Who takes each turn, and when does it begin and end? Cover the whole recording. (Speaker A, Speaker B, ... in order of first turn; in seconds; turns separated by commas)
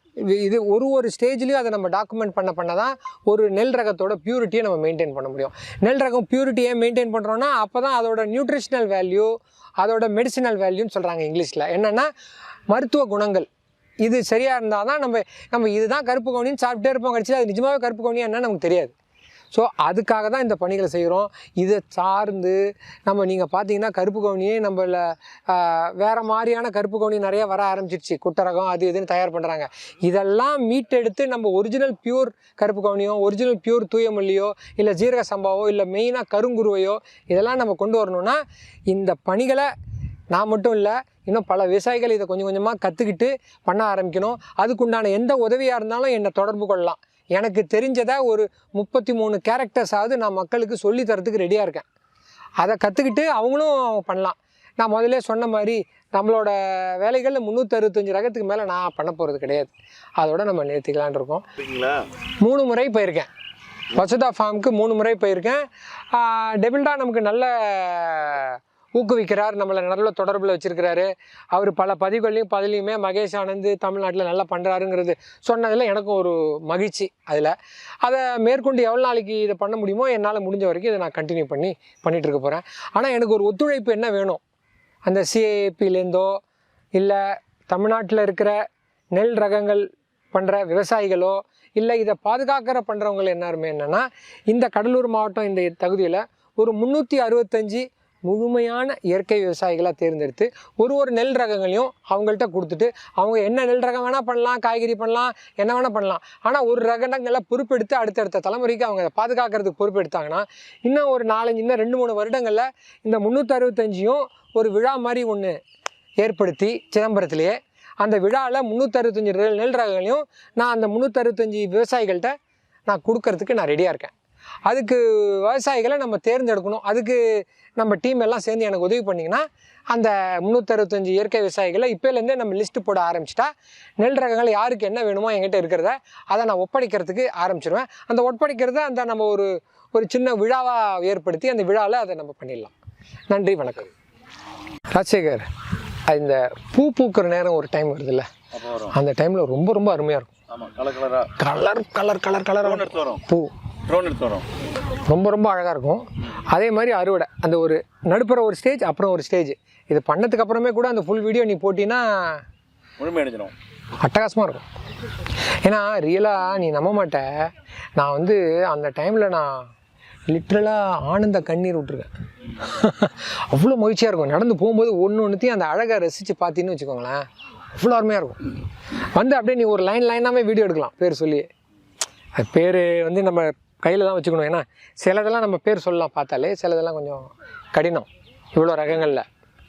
Speaker A: 0.2-12.1, Speaker A: 12.7-13.5, Speaker A: 14.0-18.9, Speaker A: 19.5-39.7, Speaker A: 40.3-51.9, Speaker A: 52.6-61.4, Speaker B: 61.6-62.0, Speaker A: 62.4-63.3, Speaker A: 63.9-84.4, Speaker A: 85.1-86.4, Speaker A: 87.0-88.5, Speaker A: 89.2-115.6, Speaker A: 116.2-122.3, Speaker A: 122.9-124.1, Speaker A: 124.7-142.7, Speaker A: 143.3-143.9, Speaker A: 144.9-145.5, Speaker A: 146.1-148.3, Speaker B: 148.5-148.9, Speaker A: 148.9-150.3, Speaker B: 150.5-151.3, Speaker A: 151.4-153.5, Speaker B: 152.6-153.2, Speaker B: 153.9-154.4, Speaker A: 155.1-162.4, Speaker B: 163.0-163.5, Speaker A: 164.0-164.6, Speaker A: 165.6-169.6, Speaker A: 170.3-177.2, Speaker A: 177.8-178.5, Speaker A: 179.1-181.5, Speaker A: 182.4-189.2